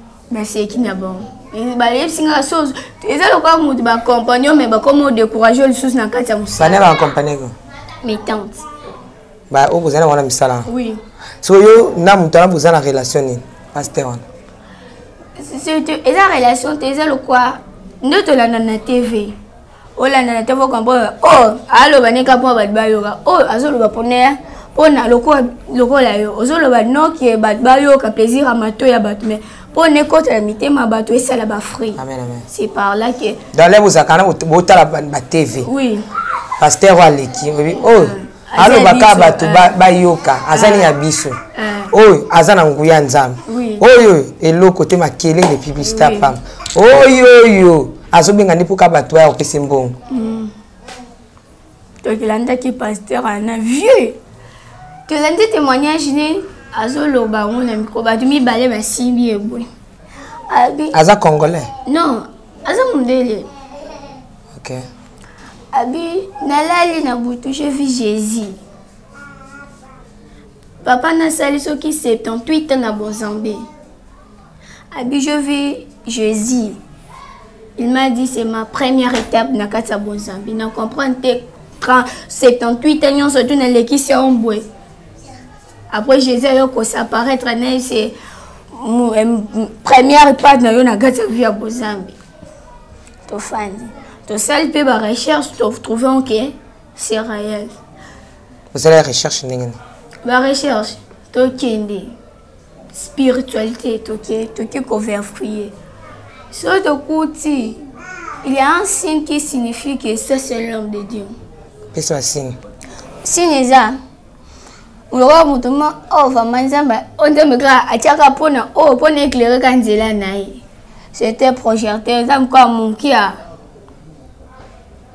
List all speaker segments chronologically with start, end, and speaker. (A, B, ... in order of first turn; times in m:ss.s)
0:00.3-0:06.8 A
0:06.6-0:07.5 B
0:08.0-0:08.6 A
0:09.5-0:10.7 B
0:10.6-0:11.0 A
0:11.4-0:14.2 B
0:15.4-0:19.4 A
0:20.0-0:32.0 A
0:32.0-0:32.5 B
0:32.5-0:33.4 A
0:33.5-0:35.7 B
0:35.6-0:36.0 A
0:36.6-0:41.4 B
0:37.8-0:39.7 A
0:40.5-0:40.9 A
0:41.5-0:41.9 A
0:41.9-0:50.0 B
0:43.5-0:43.8 A
0:45.8-0:46.3 A
0:50.1-0:50.5 A
0:52.0-0:54.2 A
0:55.1-0:59.6 A
1:00.5-1:00.9 A
1:00.9-1:01.7 B
1:01.8-1:03.5 A
1:04.5-1:04.8 B
1:05.7-1:08.6 A
1:10.8-1:13.6 A
1:14.9-1:16.8 A
1:17.8-1:24.6 A
1:25.9-1:28.1 A
1:28.7-1:32.1 A
1:33.3-1:37.7 A
1:38.7-1:39.8 B
1:40.2-1:42.1 A
1:42.9-1:45.7 A
1:46.5-1:47.8 A
1:48.4-1:51.3 A
1:51.9-1:52.6 B
1:53.2-1:54.0 A
1:55.1-2:00.6 A
2:01.1-2:03.4 A